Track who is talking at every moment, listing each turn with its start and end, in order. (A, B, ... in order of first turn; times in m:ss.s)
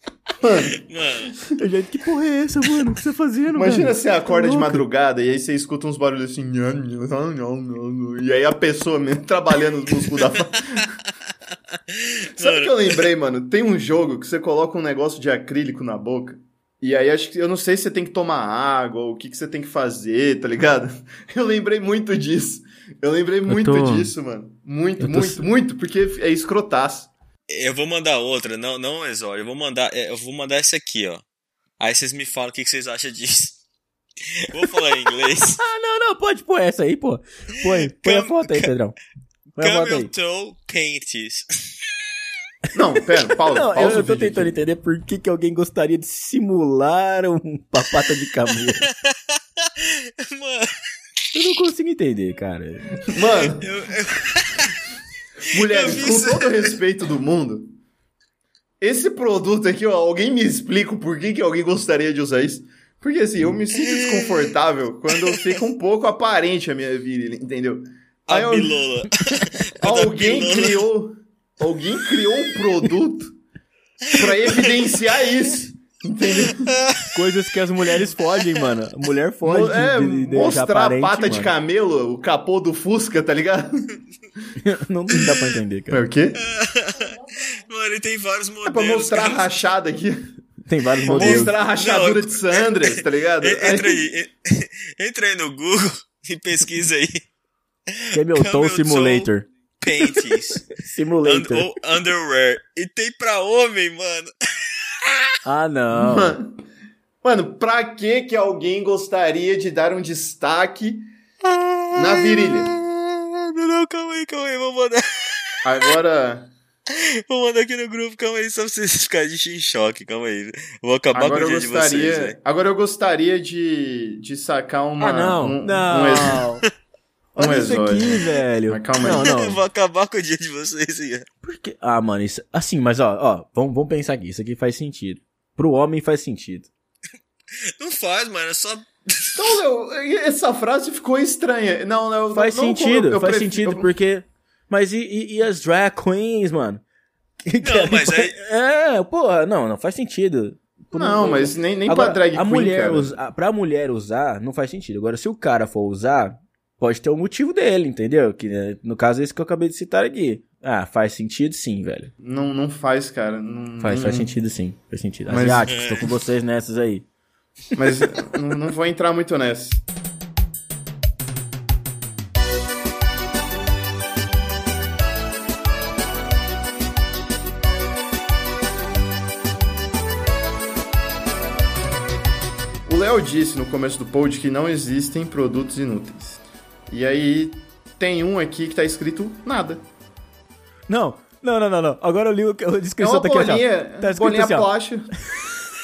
0:00.4-0:00.8 A
0:00.8-0:01.4 B
0:01.6-0:04.8 C
0:03.5-0:10.9 A
0:11.9-0:12.7 B
0:12.4-0:27.1 A
0:23.5-0:24.1 C
0:25.0-0:25.4 C
0:27.5-0:31.2 B
0:31.8-0:33.6 B
0:34.4-0:35.6 B
0:35.6-0:39.0 C
0:37.6-0:38.7 B
0:39.6-0:40.1 C
0:39.6-0:41.5 B
0:42.7-0:44.6 A
0:43.5-0:48.9 C
0:48.8-0:49.2 B
0:49.8-0:50.7 B
0:51.3-0:53.0 C
0:53.1-0:53.7 A
0:53.6-0:54.8 B
0:55.5-0:57.7 A
0:55.6-0:56.7 B
0:58.8-1:08.8 A
1:03.8-1:04.4 B
1:08.3-1:10.8 B
1:09.8-1:13.4 A
1:14.1-1:14.7 B
1:14.1-1:16.7 A
1:16.7-1:17.1 B
1:17.1-1:21.5 C
1:19.4-1:23.7 A
1:24.6-1:26.0 C
1:25.9-1:26.4 A
1:26.4-1:29.5 B
1:28.6-1:30.2 A
1:30.6-1:31.5 C
1:31.0-1:37.2 B
1:31.1-1:34.1 A
1:37.9-1:40.7 B
1:38.1-1:39.5 C
1:40.2-1:41.7 C
1:41.2-1:45.3 B
1:45.4-1:46.4 C
1:45.9-1:46.5 A
1:47.2-1:51.1 A
1:51.4-1:55.7 B
1:51.9-1:52.7 A
1:55.6-1:56.5 A
1:56.9-2:02.4 B
2:01.1-2:06.4 A
2:05.0-2:06.6 C
2:07.4-2:09.3 A
2:07.4-2:09.6 C
2:09.0-2:11.3 B
2:11.4-2:16.7 C
2:17.8-2:19.5 B
2:19.4-2:23.9 A
2:22.3-2:26.8 C
2:27.4-2:42.1 C
2:27.6-2:28.3 B
2:30.9-2:33.2 A
2:42.2-2:44.3 A
2:43.8-2:47.0 C
2:45.3-2:46.0 A
2:47.8-2:49.8 A
3:02.9-3:09.8 A
3:10.9-3:14.7 C
3:13.0-3:15.1 A